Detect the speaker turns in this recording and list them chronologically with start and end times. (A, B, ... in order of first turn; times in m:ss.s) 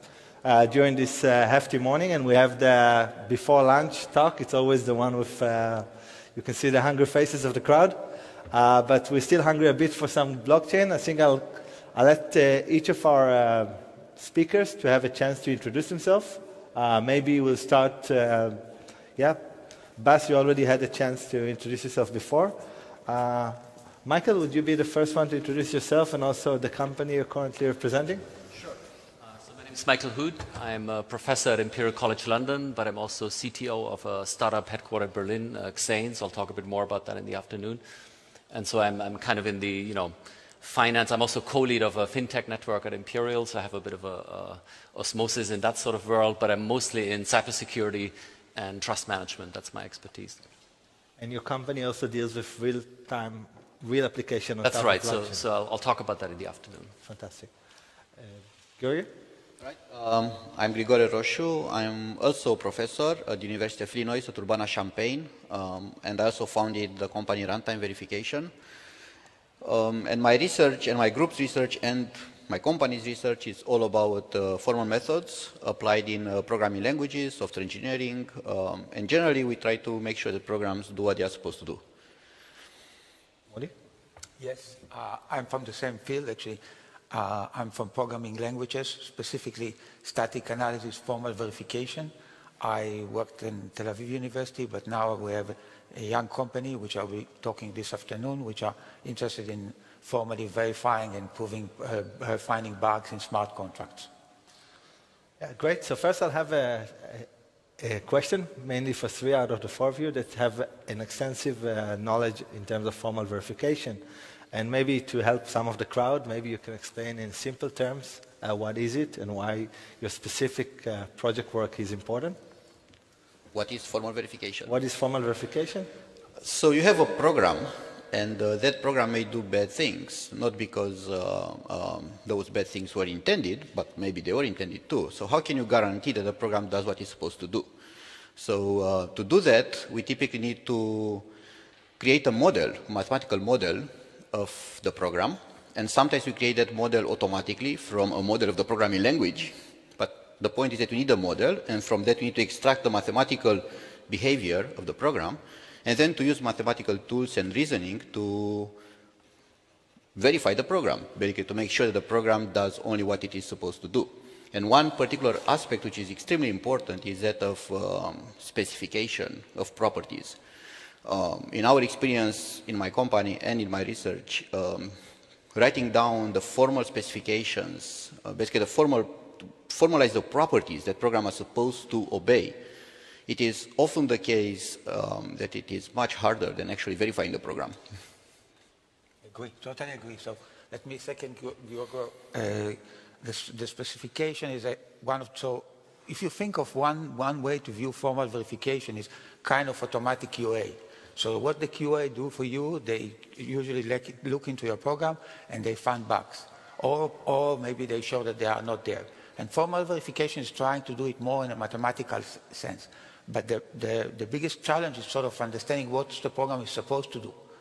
0:00.4-0:08.0 A
0:08.5-0:18.6 A
0:19.2-0:28.2 A
0:29.4-0:37.8 B
0:38.5-0:50.4 B
0:51.2-0:55.4 A
0:54.6-0:56.9 B
0:57.0-0:57.5 A
0:58.2-0:59.1 A
0:59.6-1:08.5 C
1:09.6-1:21.8 C
1:24.4-1:44.1 D
1:45.4-1:47.3 A
1:47.8-1:54.0 A
1:54.5-2:02.4 A
2:03.5-2:04.7 C
2:04.7-2:05.9 A
2:06.4-2:17.7 C
2:18.4-2:21.3 C
2:22.0-2:38.8 C
2:40.2-2:50.4 C
2:51.0-2:55.0 C
2:55.5-3:02.6 C
3:03.3-3:07.8 C
3:09.2-3:37.4 D